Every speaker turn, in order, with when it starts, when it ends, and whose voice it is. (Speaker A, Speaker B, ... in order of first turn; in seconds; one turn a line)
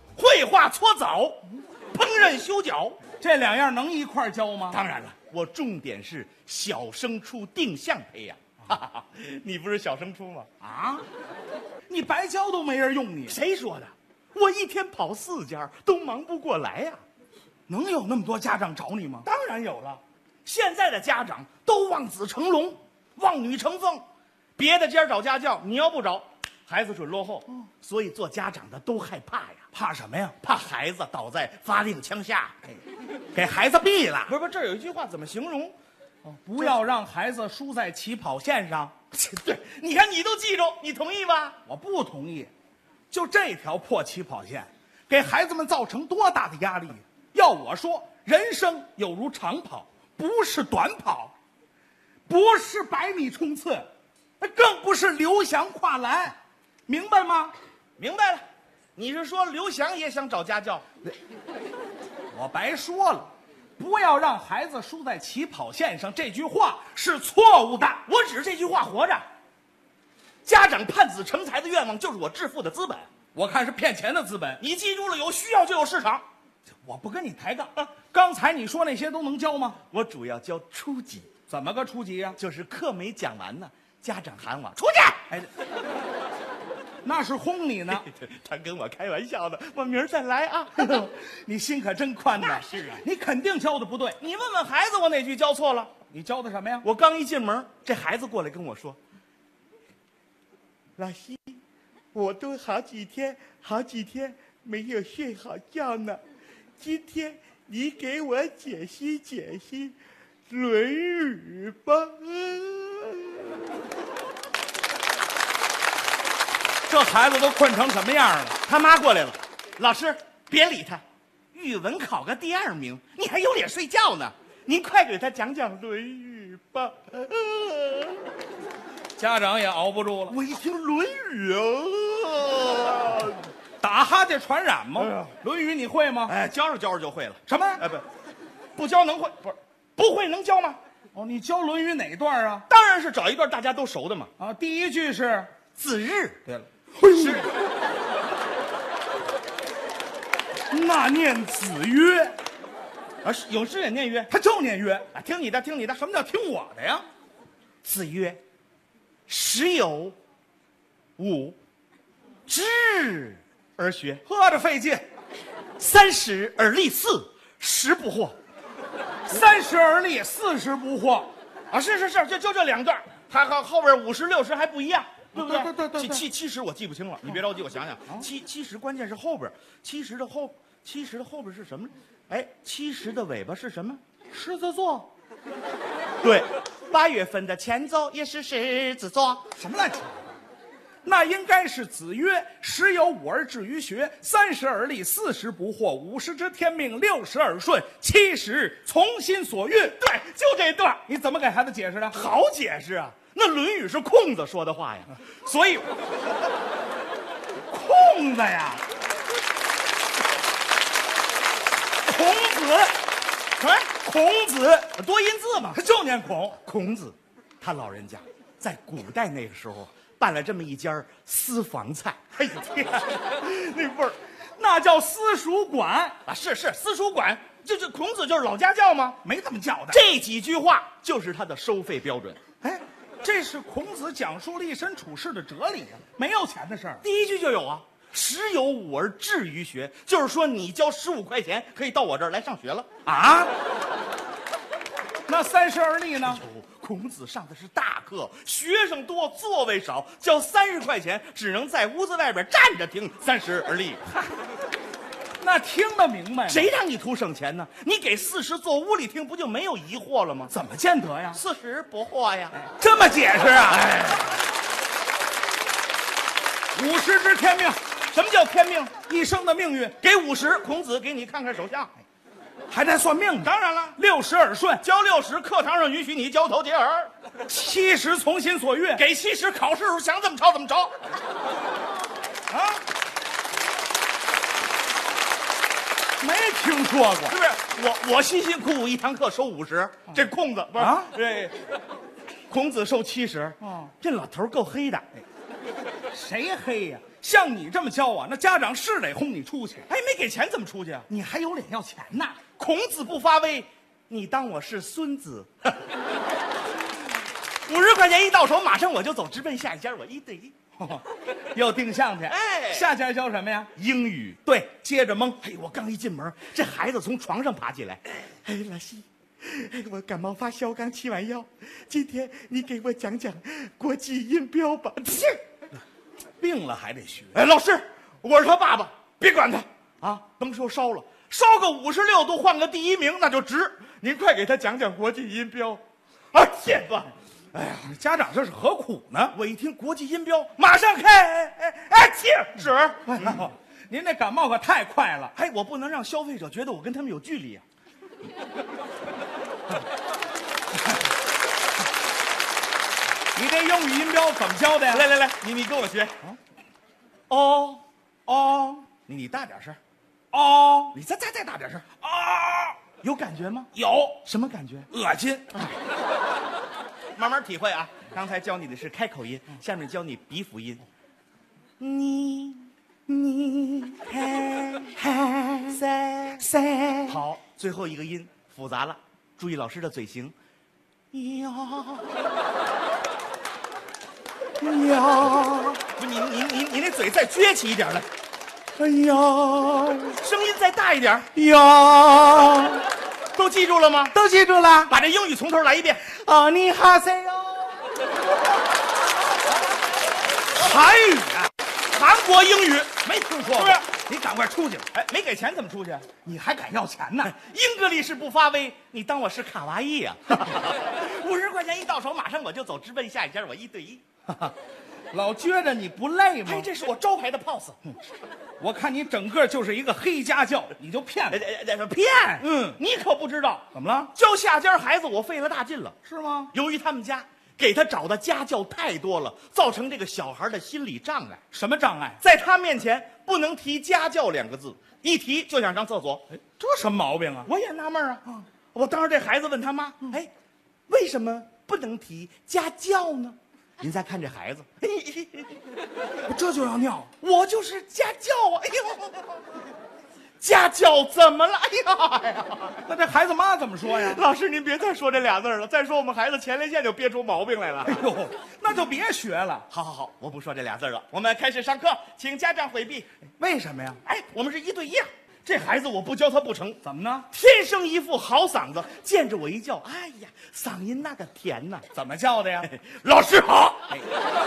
Speaker A: 0.1-3.0
Speaker B: 3.2-4.8
Speaker A: 4.7-10.5
Speaker B: 10.6-11.0
Speaker B: 11.9-13.4
Speaker A: 13.3-17.0
Speaker B: 17.7-20.0
Speaker A: 20.4-24.0
Speaker A: 24.6-29.6
Speaker B: 29.7-30.4
Speaker A: 30.4-32.8
Speaker B: 33.3-34.3
Speaker A: 34.3-35.7
Speaker B: 36.2-38.9
Speaker A: 39.1-41.6
Speaker B: 41.6-42.5
Speaker B: 43.1-51.3
Speaker B: 52.3-53.9
Speaker B: 54.4-57.5
Speaker A: 58.0-58.4
Speaker A: 59.0-60.9
Speaker B: 62.3-68.0
Speaker A: 68.0-69.2
Speaker A: 70.4-73.1
Speaker B: 73.3-74.6
Speaker A: 74.6-76.2
Speaker B: 76.8-79.8
Speaker A: 79.9-81.3
Speaker B: 81.5-82.4
Speaker A: 82.4-85.3
Speaker B: 87.0-88.0
Speaker A: 87.9-91.1
Speaker B: 90.8-94.2
Speaker A: 92.4-93.0
Speaker A: 94.2-95.9
Speaker B: 96.1-96.8
Speaker A: 96.8-99.0
Speaker A: 101.0-101.6
Speaker A: 102.1-106.2
Speaker A: 106.8-110.0
Speaker A: 110.5-113.7
Speaker B: 116.9-118.6
Speaker A: 118.7-121.0
Speaker A: 121.5-128.3
Speaker B: 129.2-130.3
Speaker A: 130.3-133.5
Speaker B: 133.8-136.3
Speaker A: 136.3-138.1
Speaker B: 137.5-137.8
Speaker A: 138.8-140.8
Speaker B: 141.1-142.7
Speaker A: 142.7-144.3
Speaker B: 144.4-145.5
Speaker A: 145.7-146.4
Speaker B: 146.4-147.5
Speaker A: 147.1-147.5
Speaker B: 150.7-152.3
Speaker A: 153.2-154.3
Speaker B: 154.3-155.1
Speaker A: 155.1-156.0
Speaker B: 156.0-157.1
Speaker A: 157.8-158.4
Speaker A: 159.3-160.2
Speaker A: 161.2-161.6
Speaker A: 162.5-164.2
Speaker B: 164.3-165.0
Speaker A: 165.8-168.3
Speaker B: 169.3-171.3
Speaker A: 171.7-184.0
Speaker B: 175.3-176.2
Speaker B: 184.3-185.1
Speaker A: 186.2-189.4
Speaker B: 189.6-190.3
Speaker B: 191.0-200.0
Speaker A: 200.0-201.0
Speaker B: 201.1-202.2
Speaker A: 202.1-205.9
Speaker B: 207.7-208.8
Speaker B: 212.0-213.0
Speaker A: 213.6-213.9
Speaker B: 214.0-214.9
Speaker A: 214.9-215.8
Speaker B: 215.7-216.6
Speaker A: 216.6-224.2
Speaker B: 224.6-226.2
Speaker A: 226.2-229.2
Speaker B: 229.2-230.0
Speaker A: 229.9-232.4
Speaker B: 232.6-237.0
Speaker A: 237.0-242.9
Speaker B: 243.1-243.5
Speaker B: 245.2-246.4
Speaker A: 246.2-254.2
Speaker B: 255.4-256.7
Speaker A: 256.5-260.5
Speaker B: 260.5-261.4
Speaker A: 261.3-262.6
Speaker B: 262.6-264.3
Speaker A: 263.8-264.2
Speaker B: 266.7-267.8
Speaker A: 268.1-268.9
Speaker B: 269.0-269.9
Speaker A: 270.0-271.9
Speaker B: 272.7-274.8
Speaker A: 273.4-274.0
Speaker A: 274.8-277.1
Speaker B: 277.4-279.0
Speaker A: 278.9-281.0
Speaker B: 282.5-282.8
Speaker B: 286.2-287.4
Speaker A: 287.3-291.5
Speaker B: 290.8-291.2
Speaker A: 292.5-295.1
Speaker B: 293.6-293.9
Speaker B: 296.1-299.9
Speaker A: 299.9-301.1
Speaker B: 301.1-302.4
Speaker A: 302.6-305.8
Speaker A: 307.6-310.6
Speaker B: 310.8-313.7
Speaker A: 312.3-312.9
Speaker A: 313.8-314.7
Speaker B: 314.6-315.4
Speaker A: 315.4-325.4
Speaker B: 326.4-327.4
Speaker A: 327.3-337.1
Speaker B: 337.5-339.3
Speaker A: 339.3-343.4
Speaker B: 343.1-345.3
Speaker A: 345.3-347.6
Speaker B: 353.3-355.1
Speaker A: 354.9-356.3
Speaker A: 357.3-357.8
Speaker B: 358.3-358.9
Speaker A: 359.0-359.8
Speaker B: 360.3-361.0
Speaker A: 360.9-361.8
Speaker B: 361.8-362.8
Speaker A: 363.0-363.7
Speaker B: 363.7-364.2
Speaker A: 364.2-364.9
Speaker B: 364.9-365.6
Speaker A: 367.1-370.8
Speaker A: 371.8-380.3
Speaker A: 381.1-382.2
Speaker B: 384.6-385.7
Speaker A: 384.8-388.1
Speaker B: 388.8-390.0
Speaker A: 390.0-391.4
Speaker B: 391.4-392.8
Speaker A: 393.3-394.1
Speaker B: 394.1-394.9
Speaker A: 394.9-396.2
Speaker B: 396.1-397.9
Speaker B: 400.5-401.5
Speaker A: 401.9-403.0
Speaker B: 403.0-404.9
Speaker A: 403.5-403.8
Speaker A: 404.9-406.1
Speaker B: 406.2-407.3
Speaker A: 407.2-414.0
Speaker B: 415.1-416.7
Speaker A: 416.4-417.8
Speaker B: 418.6-421.4
Speaker A: 421.3-426.0
Speaker B: 422.4-422.8
Speaker B: 423.7-424.1
Speaker B: 426.0-426.5
Speaker A: 426.5-431.4
Speaker B: 431.5-432.2
Speaker A: 432.2-436.2
Speaker B: 436.6-437.5
Speaker A: 437.4-440.3
Speaker A: 440.9-445.6
Speaker B: 446.2-447.1
Speaker A: 447.2-449.6
Speaker A: 450.4-452.9
Speaker B: 452.8-454.2
Speaker A: 453.8-458.0
Speaker B: 457.8-459.6
Speaker A: 459.7-463.1
Speaker B: 463.4-464.0
Speaker A: 464.0-471.9
Speaker B: 466.8-467.3
Speaker B: 471.9-472.7
Speaker A: 472.6-474.0